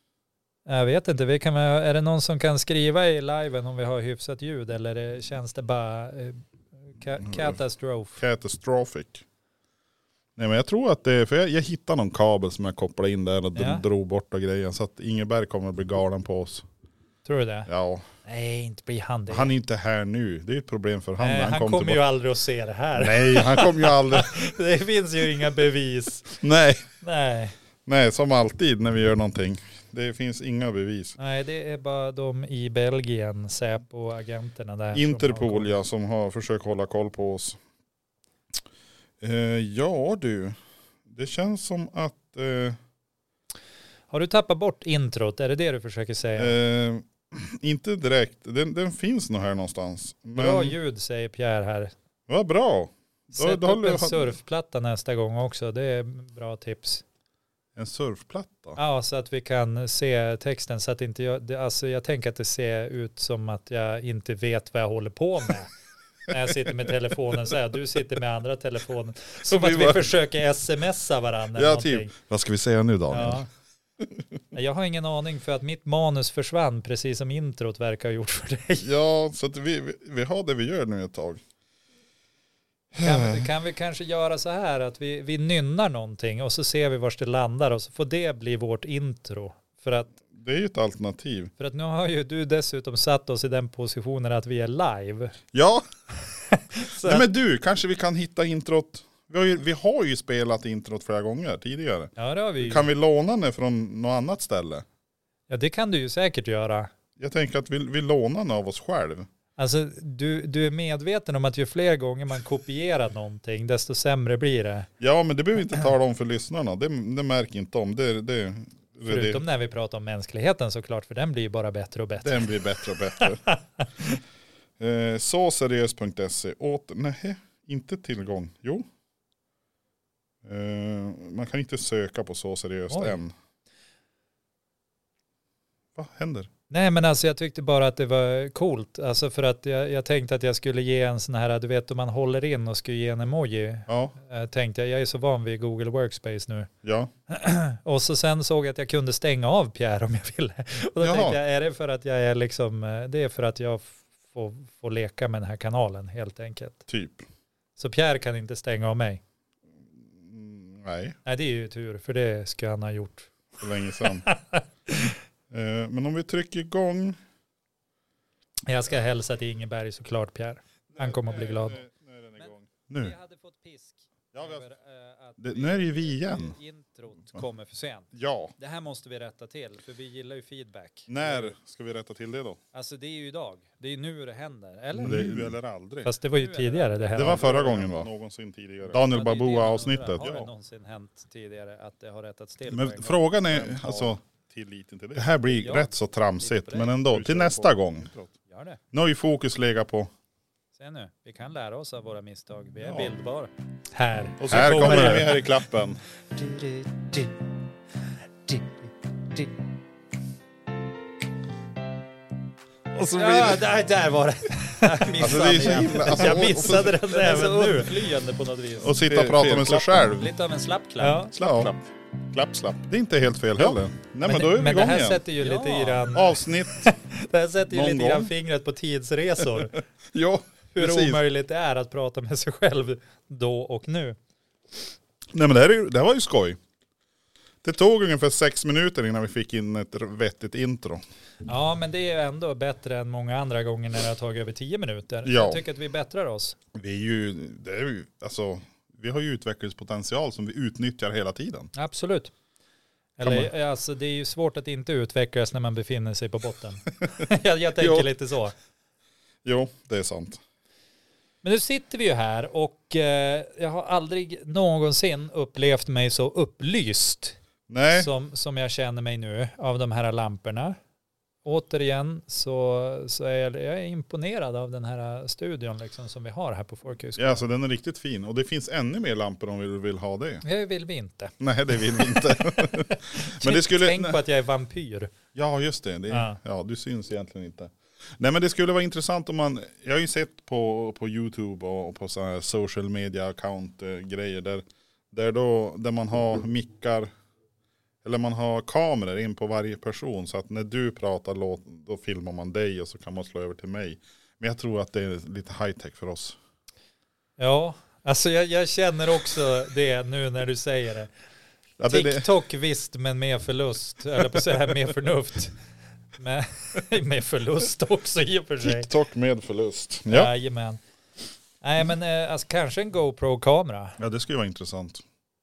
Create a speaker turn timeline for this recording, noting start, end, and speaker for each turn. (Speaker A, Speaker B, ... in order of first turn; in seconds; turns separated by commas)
Speaker A: 0.7-8.2, Speaker B: 7.2-7.6, Speaker B: 8.2-9.2, Speaker B: 10.4-16.6, Speaker A: 13.5-13.8, Speaker A: 17.2-17.7, Speaker B: 17.7-18.1, Speaker A: 18.2-19.5, Speaker B: 19.3-22.0, Speaker A: 21.2-26.4, Speaker B: 22.9-24.3, Speaker B: 26.4-26.9, Speaker A: 27.0-27.5, Speaker B: 27.9-31.2, Speaker A: 31.2-35.8, Speaker B: 34.9-37.6, Speaker B: 39.2-40.5, Speaker B: 41.1-42.8, Speaker A: 44.1-46.5, Speaker B: 46.4-50.8, Speaker A: 50.4-51.9, Speaker B: 52.3-54.4, Speaker A: 53.3-57.0, Speaker B: 57.8-58.8, Speaker A: 58.8-65.7, Speaker A: 66.3-72.1, Speaker B: 69.5-70.1, Speaker B: 71.5-73.5, Speaker A: 73.1-73.5, Speaker A: 74.5-78.9, Speaker B: 78.8-81.4, Speaker A: 83.0-90.1, Speaker B: 83.0-83.4, Speaker B: 90.3-91.5, Speaker A: 91.6-95.3, Speaker B: 95.5-95.8, Speaker A: 96.5-97.2, Speaker B: 96.9-104.8, Speaker A: 102.2-102.9, Speaker A: 105.5-106.9, Speaker B: 107.2-109.3, Speaker A: 109.6-114.9, Speaker B: 115.0-119.4, Speaker A: 119.0-124.0, Speaker B: 122.2-123.4, Speaker B: 124.8-128.8, Speaker B: 130.4-133.3, Speaker A: 132.9-133.2, Speaker B: 135.9-136.5, Speaker A: 136.7-146.7, Speaker B: 143.9-144.2, Speaker B: 146.8-147.1, Speaker A: 147.3-156.8, Speaker B: 151.0-151.4, Speaker B: 156.9-157.2, Speaker A: 157.8-159.2, Speaker B: 160.2-161.2, Speaker A: 161.2-163.3, Speaker B: 163.6-164.3, Speaker A: 164.0-165.2, Speaker B: 165.5-167.2, Speaker A: 168.7-171.8, Speaker B: 170.9-173.2, Speaker A: 172.4-181.5, Speaker B: 174.3-174.6, Speaker B: 175.4-176.6, Speaker B: 178.1-178.5, Speaker B: 181.1-182.6, Speaker A: 182.7-188.1, Speaker B: 184.9-186.1, Speaker B: 187.1-190.5, Speaker A: 188.9-194.1, Speaker B: 192.7-198.1, Speaker A: 195.3-197.7, Speaker A: 198.5-198.8, Speaker B: 198.9-200.1, Speaker A: 200.7-205.4, Speaker B: 202.8-203.1, Speaker B: 204.4-206.0, Speaker A: 206.3-207.3, Speaker A: 208.5-209.5, Speaker C: 213.1-213.7, Speaker A: 213.1-221.3, Speaker B: 215.2-217.1, Speaker C: 215.2-220.1, Speaker B: 218.8-220.3, Speaker C: 221.0-222.8, Speaker B: 221.1-221.7, Speaker B: 222.8-225.2, Speaker A: 223.6-229.8, Speaker C: 225.4-226.0, Speaker B: 226.0-226.9, Speaker B: 227.7-228.3, Speaker B: 230.1-231.2, Speaker A: 230.7-234.2, Speaker B: 235.3-236.6, Speaker B: 237.6-241.0, Speaker A: 241.4-246.6, Speaker B: 245.2-245.6, Speaker B: 246.7-251.7, Speaker A: 251.7-252.3, Speaker A: 253.2-258.5, Speaker B: 253.2-253.5, Speaker B: 257.8-258.1, Speaker B: 259.4-260.4, Speaker A: 261.4-267.4, Speaker B: 267.7-268.1, Speaker A: 267.9-270.8, Speaker A: 271.4-277.5, Speaker B: 277.1-280.4, Speaker A: 280.4-285.1, Speaker B: 281.4-284.2, Speaker B: 285.3-297.1, Speaker A: 286.1-286.4, Speaker B: 298.0-306.4, Speaker A: 307.4-311.1, Speaker B: 311.8-312.3, Speaker A: 311.9-315.5, Speaker A: 316.2-318.9, Speaker B: 318.6-320.3, Speaker A: 320.1-320.8, Speaker A: 321.6-324.0, Speaker B: 324.0-325.0